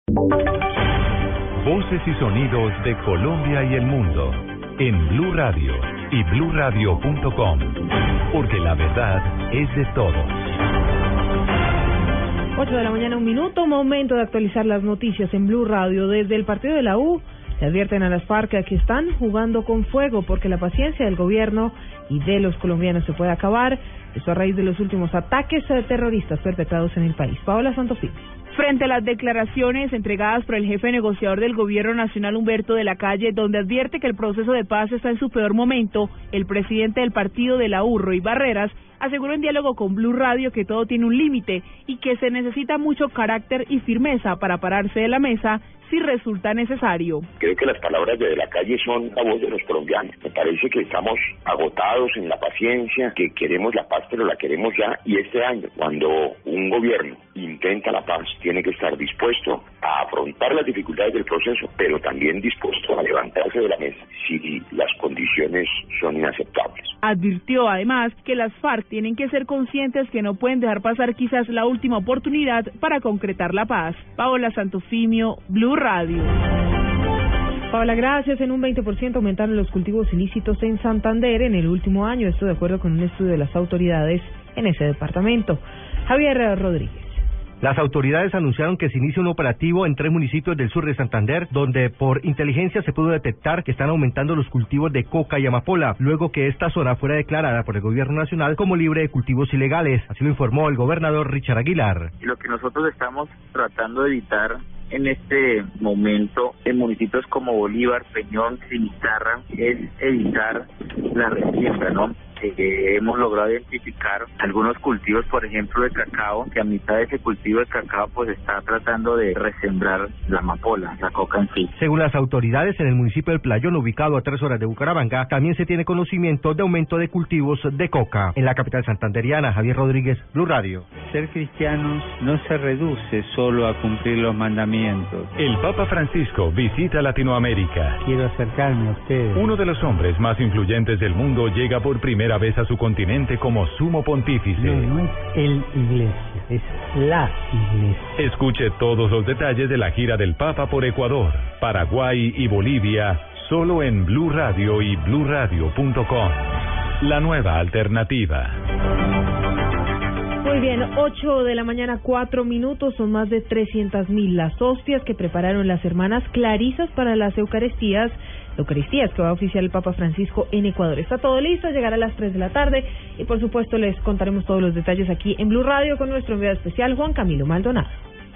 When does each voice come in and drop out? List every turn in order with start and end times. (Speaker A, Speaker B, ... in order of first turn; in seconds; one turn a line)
Speaker A: 1.6-7.8
Speaker A: 8.3-10.3
Speaker B: 12.6-28.2
Speaker C: 28.5-47.3
Speaker D: 47.4-66.9
Speaker C: 67.0-76.3
Speaker B: 77.7-87.2
Speaker E: 87.6-102.1
Speaker F: 102.2-121.7
Speaker E: 121.8-130.8
Speaker G: 131.0-135.3
Speaker A: 135.4-138.0
Speaker G: 138.1-139.4
Speaker A: 139.3-145.0
Speaker G: 144.6-148.0
Speaker A: 148.2-156.4
Speaker A: 157.0-158.5
Speaker B: 160.4-177.9